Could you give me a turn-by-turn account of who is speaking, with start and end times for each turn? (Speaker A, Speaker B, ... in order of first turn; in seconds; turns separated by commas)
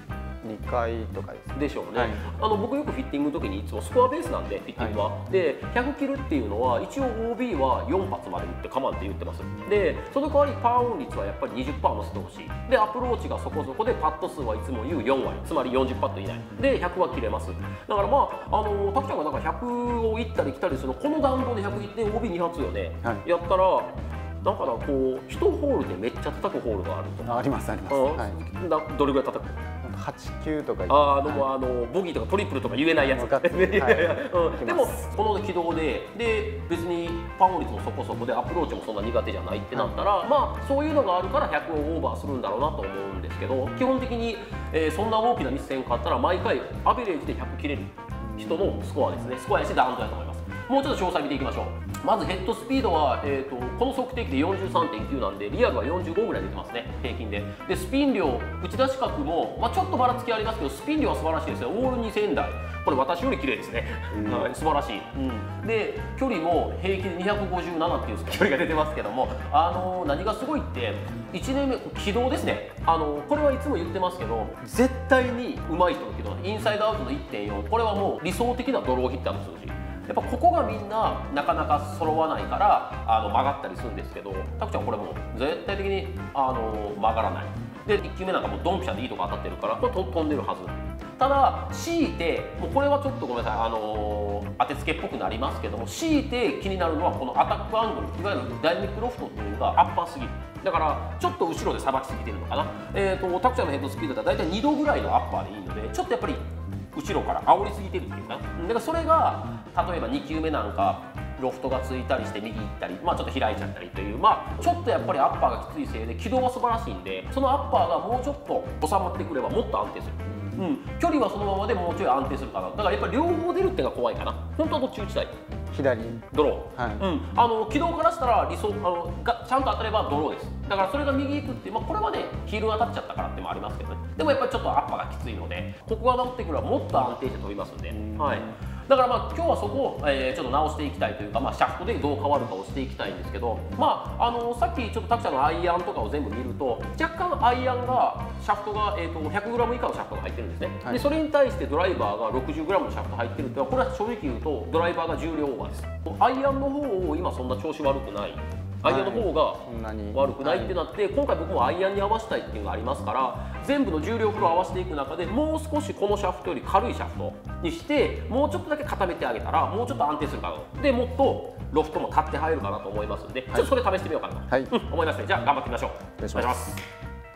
Speaker A: 0.4-2.3, Speaker B: 1.6-29.6, Speaker A: 27.2-28.4, Speaker A: 29.8-31.5, Speaker B: 30.9-125.4, Speaker A: 33.0-35.0, Speaker A: 64.1-64.5, Speaker A: 120.3-120.6, Speaker A: 125.7-127.1, Speaker B: 126.3-176.8, Speaker A: 138.0-138.4, Speaker A: 150.8-151.1, Speaker A: 158.8-160.8, Speaker A: 174.5-174.8, Speaker A: 176.2-176.7